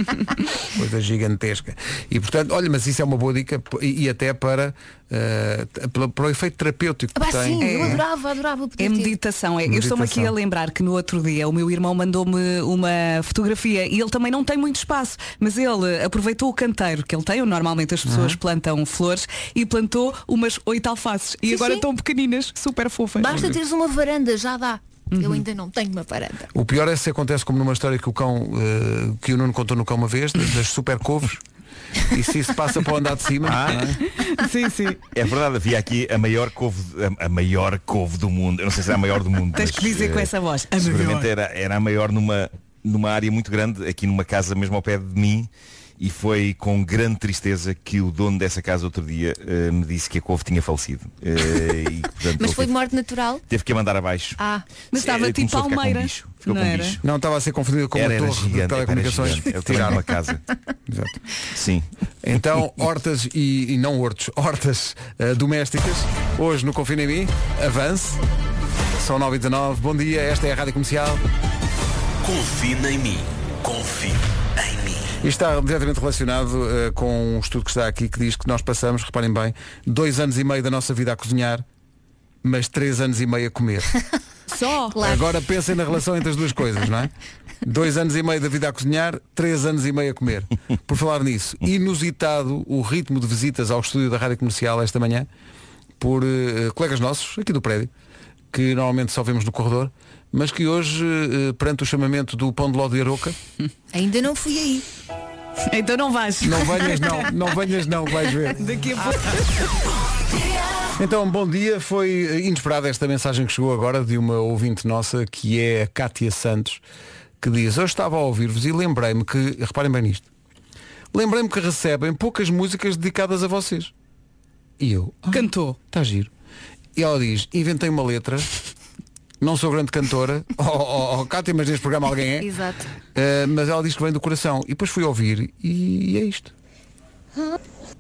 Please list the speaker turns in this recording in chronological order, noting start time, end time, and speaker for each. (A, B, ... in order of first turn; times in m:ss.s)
0:00.7-0:08.0 A
0:07.1-0:09.1 B
0:07.6-0:08.0 C
0:08.8-0:23.5 C
0:09.6-0:10.3 A
0:18.1-0:18.4 A
0:21.5-0:21.8 B
0:23.2-0:26.5 B
0:25.1-0:25.4 C
0:26.5-0:31.4 A
0:32.1-0:34.0 A
0:33.4-0:33.9 D
0:34.2-0:35.0 C
0:35.1-0:52.8 D
0:39.6-0:41.3 C
0:52.4-0:53.4 B
0:53.5-0:54.4 D
0:54.4-0:54.6 B
0:54.9-0:57.0 C
0:54.9-0:57.0 D
0:57.0-1:00.0 A
0:57.9-1:00.4 D
1:00.9-1:01.2 A
1:01.5-1:01.8 D
1:02.2-1:08.2 A
1:09.0-1:11.2 A
1:12.2-1:15.1 E
1:15.2-1:21.6 A
1:22.4-1:23.9 A
1:24.5-1:25.0 C
1:24.9-1:25.2 B
1:25.0-1:27.1 A
1:27.6-1:35.3 A
1:36.0-1:37.9 A
1:38.5-1:43.4 A
1:43.9-1:44.8 B
1:45.7-1:47.3 C
1:46.4-1:48.8 A
1:48.4-1:49.6 C
1:51.0-1:56.8 A
1:57.4-2:00.3 A
2:01.1-2:03.9 A
2:04.8-2:06.3 A
2:05.3-2:05.8 C
2:07.0-2:08.5 A
2:09.4-2:12.5 A
2:12.4-2:12.9 B
2:13.1-2:16.5 A